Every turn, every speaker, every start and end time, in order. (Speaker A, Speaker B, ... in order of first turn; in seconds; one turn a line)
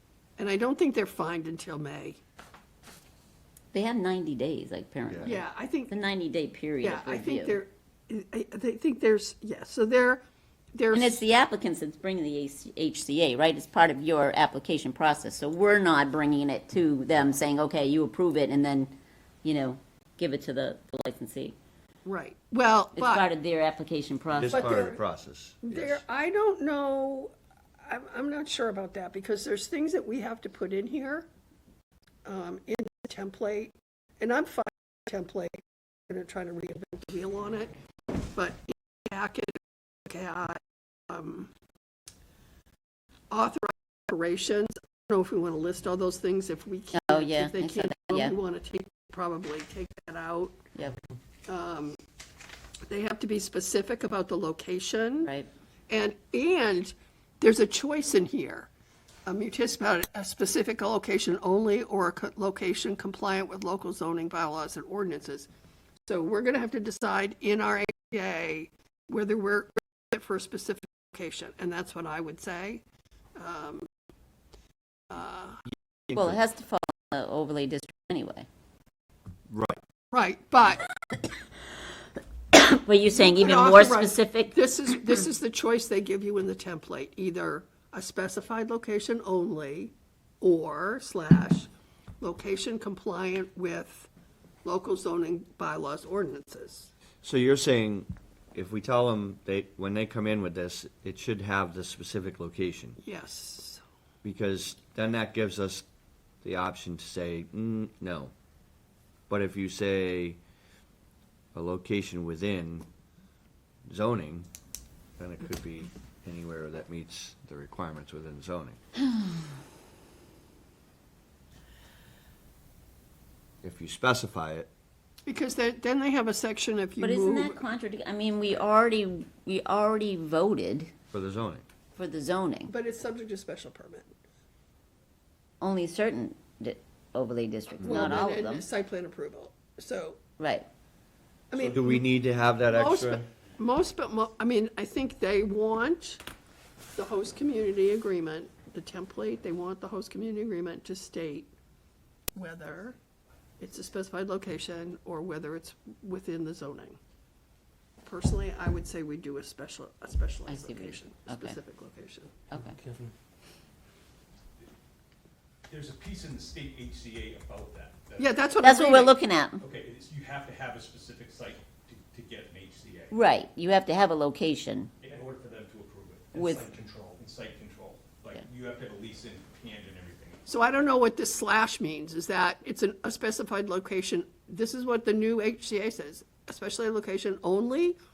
Speaker A: 0.4-2.2
Speaker B: 3.7-7.6
Speaker C: 5.1-5.3
Speaker A: 5.2-5.9
Speaker A: 6.8-11.3
Speaker B: 10.9-21.6
Speaker A: 22.1-23.3
Speaker B: 22.9-24.8
Speaker C: 24.3-26.0
Speaker A: 24.5-25.0
Speaker A: 25.6-27.3
Speaker A: 27.8-31.3
Speaker A: 32.2-41.5
Speaker A: 43.3-50.6
Speaker B: 46.9-48.4
Speaker A: 51.5-52.0
Speaker A: 52.9-55.3
Speaker A: 55.9-58.7
Speaker A: 59.3-65.5
Speaker A: 66.0-72.8
Speaker A: 73.4-73.9
Speaker A: 75.1-75.6
Speaker C: 76.1-76.4
Speaker B: 76.1-78.5
Speaker C: 79.5-79.8
Speaker A: 80.1-80.9
Speaker B: 82.5-84.6
Speaker A: 83.1-91.7
Speaker A: 92.2-94.1
Speaker A: 94.7-96.9
Speaker C: 97.2-103.0
Speaker A: 103.0-103.8
Speaker C: 104.2-105.8
Speaker C: 106.4-108.3
Speaker C: 109.3-110.4
Speaker C: 111.5-112.9
Speaker C: 113.9-114.5
Speaker C: 115.2-118.8
Speaker C: 123.6-124.7
Speaker A: 125.3-127.6
Speaker B: 127.0-130.9
Speaker C: 131.1-131.6
Speaker B: 131.9-132.7
Speaker A: 132.7-134.1
Speaker B: 135.6-138.7
Speaker A: 137.8-140.2
Speaker B: 140.4-140.7
Speaker A: 141.5-142.1
Speaker C: 141.6-143.3
Speaker A: 142.7-146.2
Speaker A: 146.9-151.5
Speaker A: 152.3-153.0
Speaker A: 153.6-157.0
Speaker A: 158.1-162.3
Speaker B: 160.5-161.6
Speaker B: 162.5-162.8
Speaker D: 165.7-168.4
Speaker A: 168.2-169.2
Speaker B: 168.6-169.6
Speaker D: 169.6-173.2
Speaker B: 173.1-174.9
Speaker D: 175.0-180.5
Speaker B: 176.3-176.7
Speaker A: 180.5-188.0